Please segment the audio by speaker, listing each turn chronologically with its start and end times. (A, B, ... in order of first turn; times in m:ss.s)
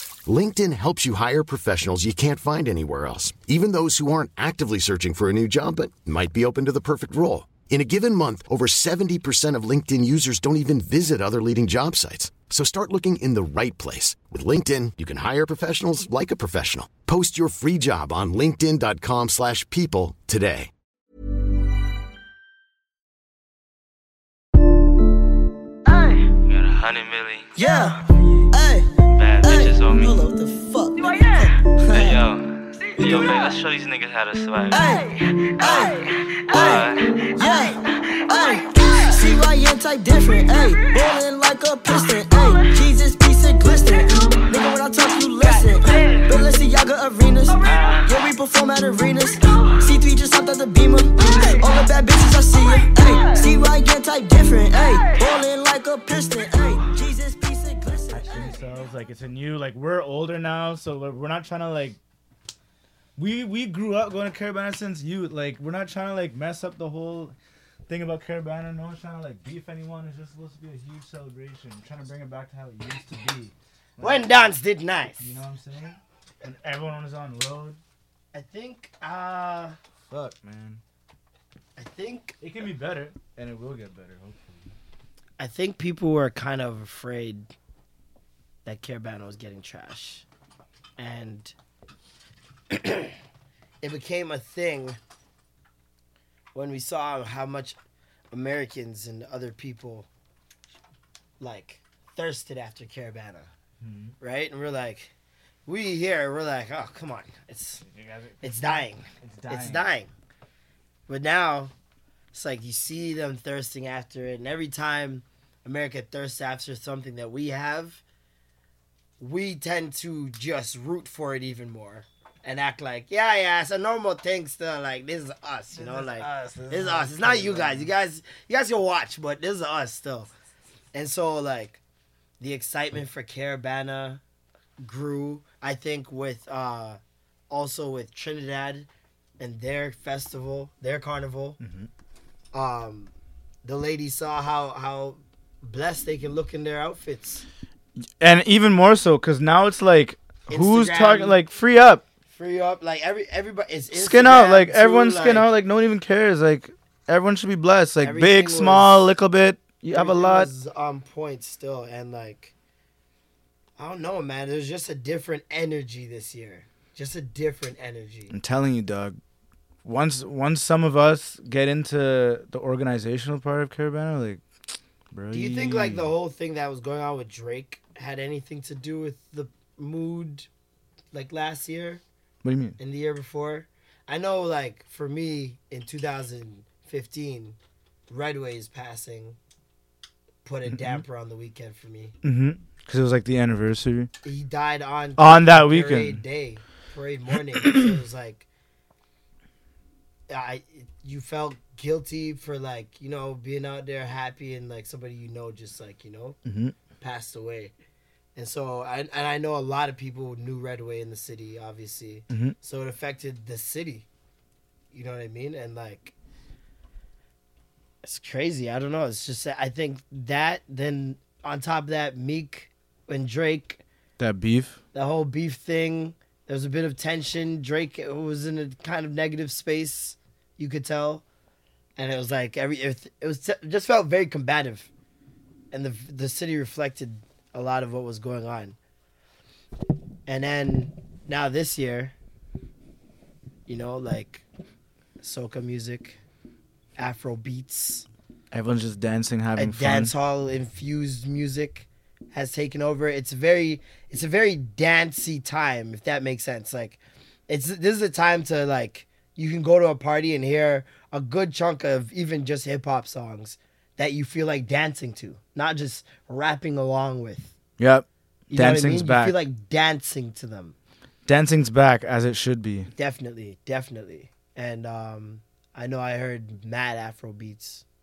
0:00.3-0:20.7 A
0:25.9-0:26.2 B
0:26.4-0:27.6 C
0:27.6-0:32.2 B
0:29.0-0:30.2 C
0:31.9-0:35.0 C
0:33.0-0:33.5 B
0:34.7-0:58.6 B
0:36.5-0:37.2 C
0:58.1-1:02.0 D
1:03.2-1:07.3 D
1:07.9-1:14.5 D
1:14.0-1:15.3 E
1:15.2-1:17.8 D
1:18.3-1:19.8 E
1:20.1-1:20.8 D
1:21.8-1:22.4 E
1:22.4-1:24.7 D
1:25.4-1:27.5 E
1:28.6-1:30.2 E
1:31.0-1:31.5 E
1:32.7-1:33.2 E
1:33.8-1:35.0 E
1:36.5-1:37.8 E
1:38.3-1:40.1 E
1:41.4-1:43.5 E
1:43.8-1:44.2 D
1:44.2-1:45.1 E
1:45.7-1:47.8 E
1:47.8-1:49.9 D
1:48.4-1:50.1 E
1:51.1-1:51.7 E
1:52.3-1:58.0 E
1:59.2-2:10.3 E
2:05.7-2:07.9 D
2:10.9-2:11.8 E
2:12.4-2:14.2 E
2:14.8-2:17.0 E
2:17.5-2:18.9 E
2:19.4-2:21.6 E
2:21.6-2:21.9 D
2:22.5-2:23.1 E
2:23.6-2:27.4 E
2:28.0-2:32.0 D
2:30.5-2:31.4 E
2:32.3-2:35.5 E
2:33.9-2:40.5 D
2:38.0-2:39.1 E
2:39.9-2:42.5 E
2:43.8-2:48.3 E
2:48.3-2:49.2 D
2:49.8-2:54.4 D
2:55.1-2:56.1 D
2:55.3-3:00.5 E
3:01.1-3:02.0 E
3:02.4-3:02.8 D
3:02.8-3:07.6 E
3:08.1-3:09.4 E
3:10.4-3:12.2 E
3:10.7-3:11.0 D
3:12.2-3:14.1 D
3:14.2-3:18.4 E
3:15.2-3:16.2 D
3:20.3-3:26.4 E
3:26.4-3:26.8 D
3:27.0-3:27.7 E
3:28.3-3:34.1 E
3:32.3-3:32.6 D
3:34.9-3:36.1 E
3:38.0-3:43.8 E
3:44.2-3:44.8 D
3:44.9-3:51.2 E
3:52.0-3:54.9 E
3:55.7-3:58.8 E
4:00.3-4:02.1 E
4:03.7-4:04.4 E
4:05.2-4:06.2 E
4:07.0-4:08.0 E
4:08.5-4:10.1 D
4:09.6-4:27.5 E
4:27.8-4:29.4 D
4:28.5-4:30.8 E
4:31.2-4:32.9 D
4:32.9-4:37.8 E